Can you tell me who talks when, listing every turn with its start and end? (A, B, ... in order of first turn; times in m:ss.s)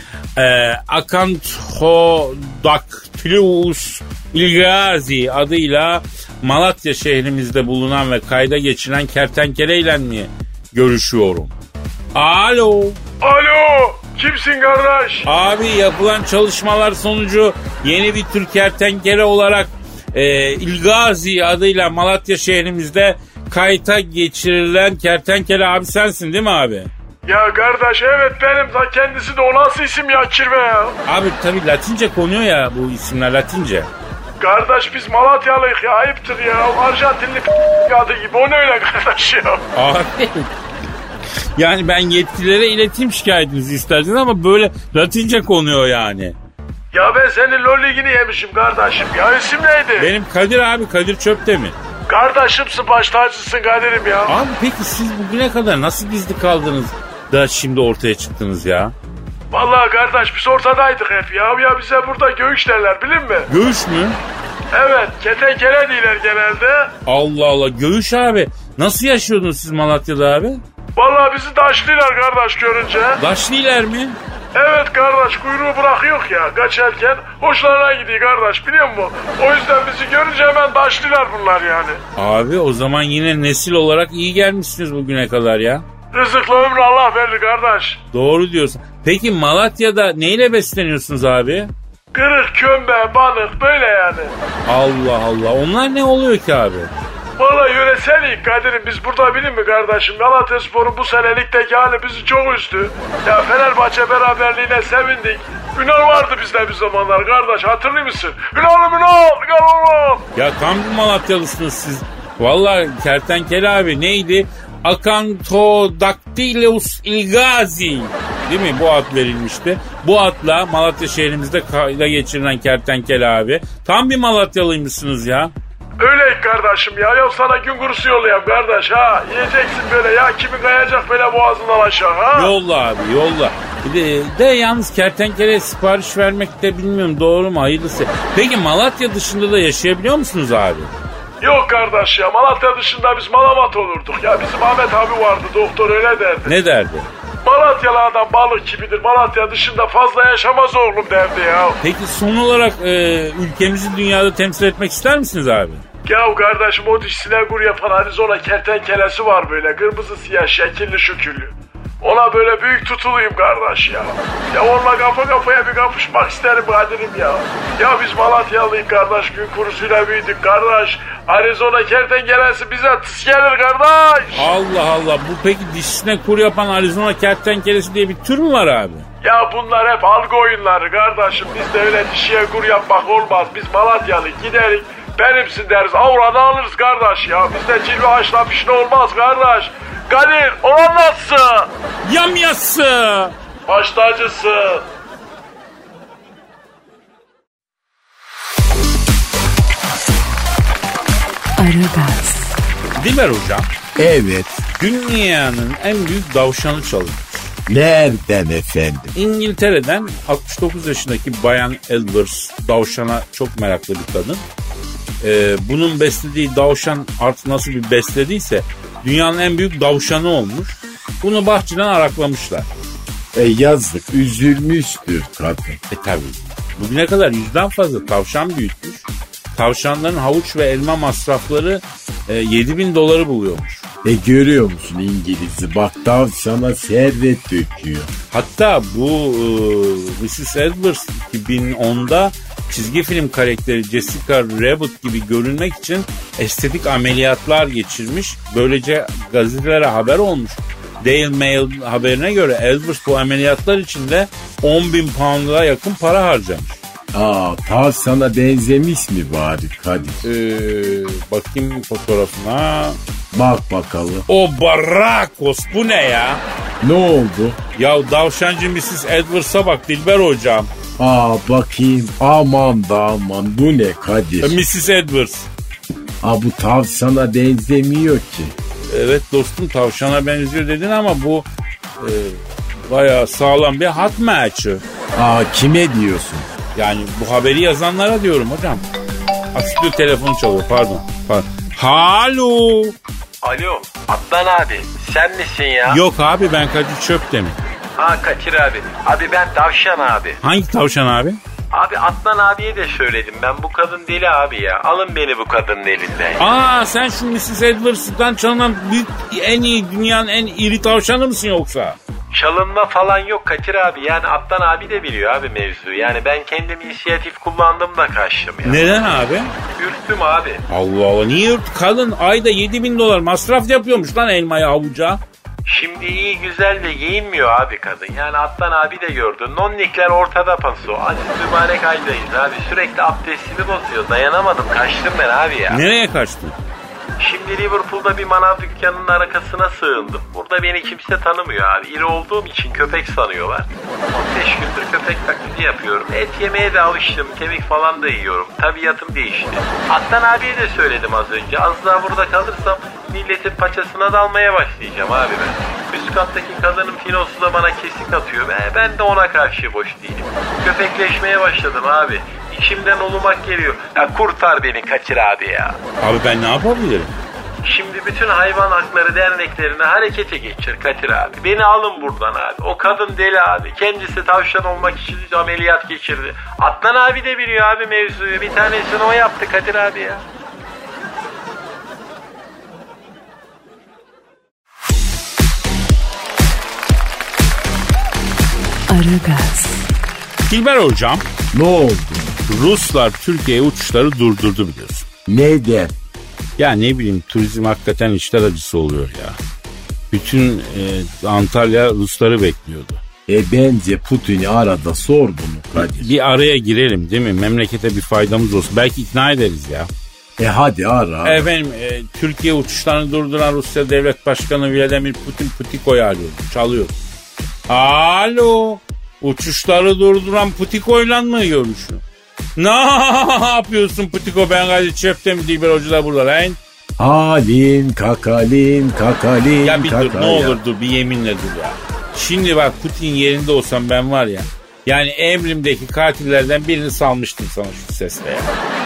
0:00.4-0:11.5 A
0:12.1-0:13.0 A
0:13.2-0:15.3 B
0:15.2-0:26.9 A
0:27.2-0:31.0 B
0:31.1-0:33.9 A
0:34.4-0:39.7 B
0:39.7-0:40.5 A
0:41.6-0:46.3 A
0:46.9-0:50.1 B
0:50.0-0:51.8 A
0:52.1-0:54.3 B
0:54.3-0:58.9 A
0:59.5-1:03.5 B
1:03.5-1:04.2 A
1:04.7-1:06.9 B
1:07.0-1:10.6 A
1:11.0-1:13.2 B
1:13.2-1:14.2 A
1:14.5-1:22.0 B
1:22.2-1:25.8 A
1:26.1-1:28.0 B
1:28.1-1:31.7 A
1:32.1-1:34.3 B
1:34.7-1:36.9 A
1:37.4-1:50.2 B
1:50.4-2:05.5 A
2:06.0-2:12.5 B
2:12.3-2:20.9 A
2:21.4-2:26.5 B
2:26.4-2:27.1 A
2:27.4-2:31.8 B
2:31.8-2:35.8 A
2:36.0-2:54.5 B
2:54.4-2:59.1 A
2:59.2-3:11.7 B
3:12.0-3:13.3 A
3:13.7-3:14.9 B
3:21.6-3:22.5 C
3:23.0-3:23.7 A
3:24.0-3:24.6 D
3:24.8-3:27.5 A
3:27.7-3:29.1 D
3:29.1-3:34.4 A
3:35.2-3:42.7 A
3:43.3-3:45.8 D
3:45.9-3:49.0 A
3:49.5-3:53.8 A
3:54.0-3:58.1 D
3:58.3-4:16.8 A
4:17.1-4:20.2 D
4:20.2-4:23.0 A
4:23.3-4:24.2 D
4:24.3-4:26.4 A
4:26.8-4:27.6 D
4:27.7-4:30.7 A
4:31.0-4:34.6 D
4:34.4-4:35.5 A
4:36.2-4:38.5 D
4:38.9-4:41.4 A
4:42.0-4:44.8 A
4:45.1-4:46.5 D
4:46.7-4:48.8 A
4:49.5-4:52.9 A
4:53.4-4:56.0 D
4:53.8-4:55.7 E
4:55.9-4:57.6 A
4:58.0-5:00.4 D
4:58.3-4:59.8 E
5:00.4-5:01.4 A
5:01.7-5:06.4 D
5:01.8-5:06.2 E
5:06.4-5:12.0 A
5:12.3-5:19.0 D
5:12.6-5:18.2 E
5:18.6-5:19.5 A
5:19.8-5:20.6 D
5:20.0-5:20.5 E
5:20.7-5:25.2 A
5:25.7-5:35.8 D
5:26.2-5:35.7 E
5:35.7-5:36.6 A
5:37.2-6:05.8 D
5:37.4-5:43.5 E
5:44.4-6:00.1 E
6:00.6-6:05.7 E
6:06.0-6:07.1 A
6:07.6-6:10.6 D
6:07.8-6:20.1 E
6:11.2-6:17.7 D
6:18.4-6:20.2 D
6:28.9-6:29.9 C
6:30.5-6:31.2 A
6:31.5-6:32.3 D
6:32.5-6:35.1 A
6:35.3-6:35.9 D
6:36.6-6:39.4 A
6:40.1-6:43.0 A
6:43.3-6:46.1 D
6:45.8-6:49.9 A
6:50.4-6:51.5 D
6:51.2-6:56.9 A
6:57.7-7:02.0 A
7:02.6-7:06.6 A
7:07.0-7:10.6 D
7:09.6-7:18.5 A